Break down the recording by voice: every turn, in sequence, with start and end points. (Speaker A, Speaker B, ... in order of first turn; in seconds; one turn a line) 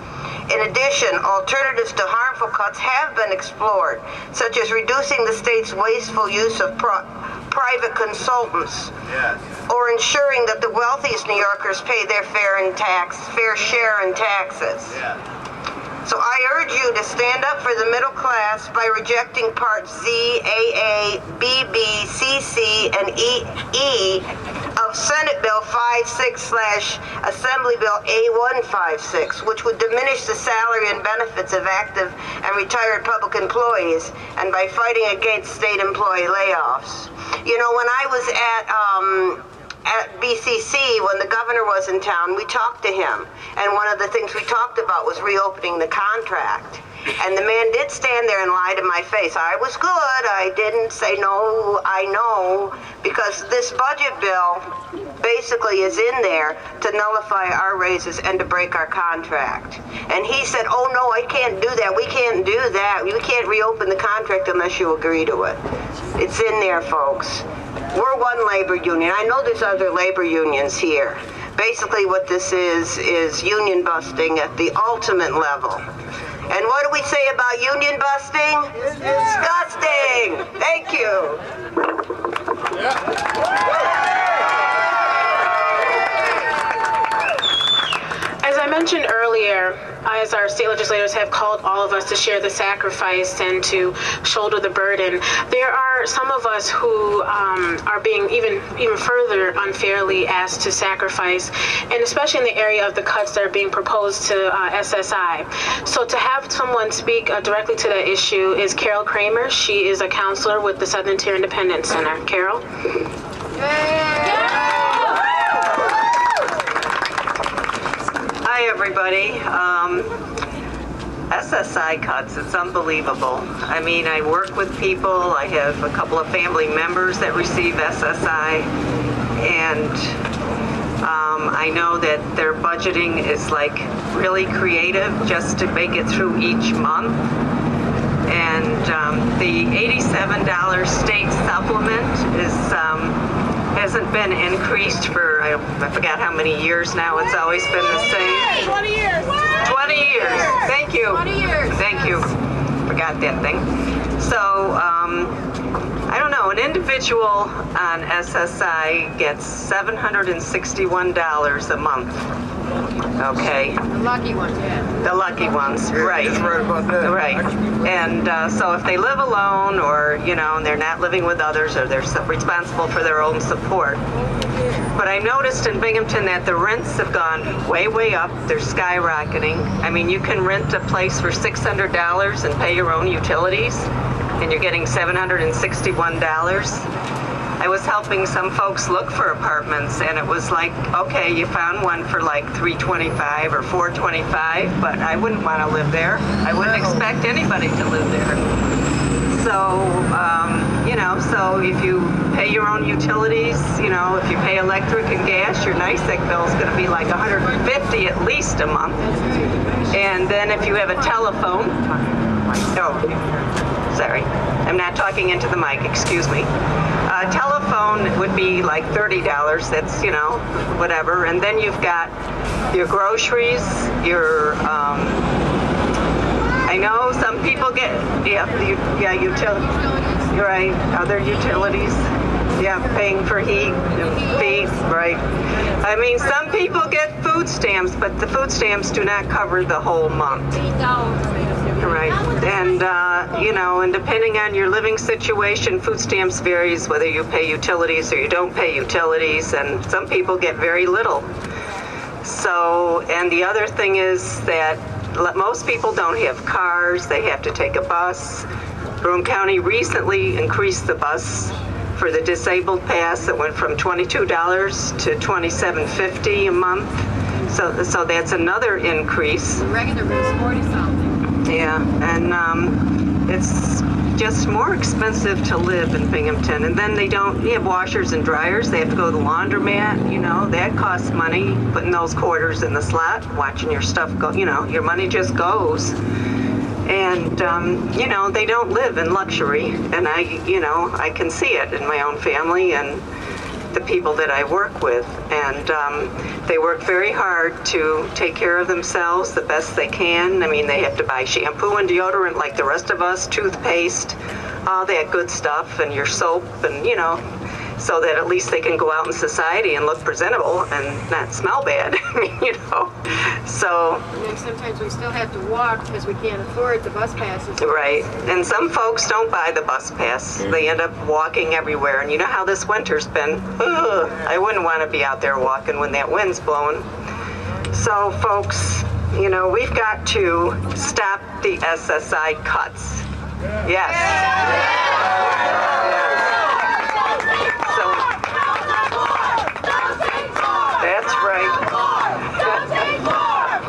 Speaker A: 0.5-8.9
Speaker A: 9.7-15.0
Speaker A: 16.0-54.7
Speaker A: 55.2-65.6
Speaker A: 66.2-75.8
Speaker A: 76.5-81.4
Speaker B: 88.4-112.6
Speaker C: 118.4-120.1
Speaker C: 121.3-128.7
Speaker C: 129.4-130.1
Speaker C: 131.0-137.2
Speaker C: 138.3-143.2
Speaker C: 143.7-148.7
Speaker C: 149.6-152.3
Speaker D: 151.0-152.2
Speaker C: 152.8-153.7
Speaker C: 154.2-155.4
Speaker C: 156.1-162.3
Speaker C: 163.2-163.8
Speaker D: 163.9-164.9
Speaker C: 165.0-174.0
Speaker C: 174.9-186.8
Speaker C: 187.6-198.4
Speaker C: 199.3-209.0
Speaker D: 209.1-210.0
Speaker C: 209.9-211.8
Speaker C: 212.7-213.1
Speaker C: 213.9-216.5
Speaker C: 217.1-222.1
Speaker C: 222.7-225.2
Speaker C: 226.6-229.8
Speaker D: 229.9-230.1
Speaker C: 230.3-235.2
Speaker C: 235.8-240.7
Speaker D: 240.8-241.3
Speaker C: 241.8-251.3
Speaker C: 252.2-258.4
Speaker C: 259.0-266.9
Speaker C: 267.5-269.6
Speaker D: 269.6-271.2
Speaker C: 271.4-285.9
Speaker C: 286.9-293.0
Speaker C: 293.7-307.2
Speaker C: 307.8-314.1
Speaker D: 314.1-317.7
Speaker C: 317.6-326.9
Speaker C: 327.7-333.0
Speaker C: 333.6-334.6
Speaker C: 335.7-336.4
Speaker C: 337.6-338.1
Speaker C: 340.8-341.7
Speaker C: 342.4-342.9